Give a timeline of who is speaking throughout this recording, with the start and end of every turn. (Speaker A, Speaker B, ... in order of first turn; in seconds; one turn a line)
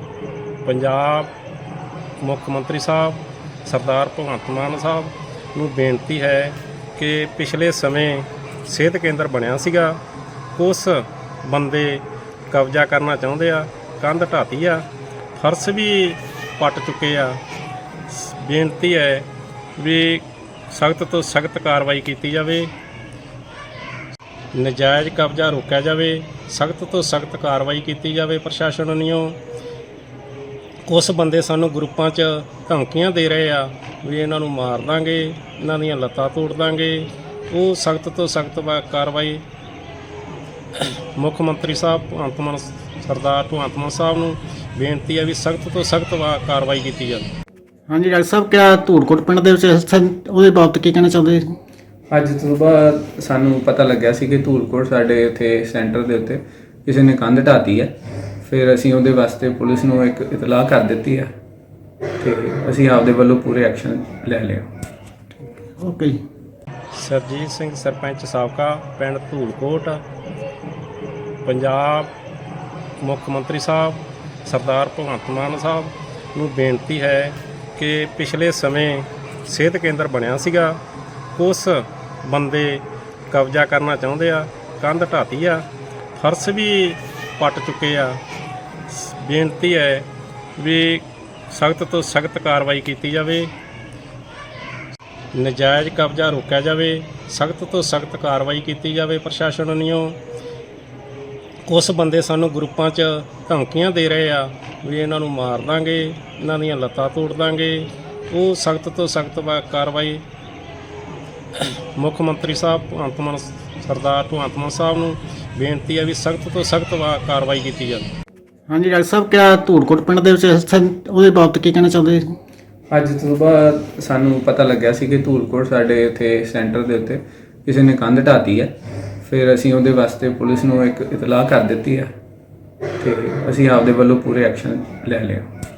Speaker A: 0.7-1.3
Speaker A: 2.2-10.0
Speaker A: 10.6-17.4
Speaker A: 18.1-22.7
Speaker A: 24.5-29.4
Speaker A: 30.9-39.5
Speaker A: 40.8-47.3
Speaker B: 47.9-51.5
Speaker C: 52.1-57.9
Speaker C: 58.4-61.3
Speaker C: 62.2-64.7
Speaker B: 65.3-66.2
Speaker A: 66.9-70.0
Speaker A: 71.4-72.1
Speaker A: 73.0-80.8
Speaker A: 81.3-85.7
Speaker A: 86.2-88.2
Speaker A: 88.9-93.5
Speaker A: 95.3-100.2
Speaker A: 101.7-110.2
Speaker A: 111.6-118.1
Speaker B: 118.7-122.3
Speaker C: 122.9-128.7
Speaker C: 129.2-132.1
Speaker C: 133.0-135.4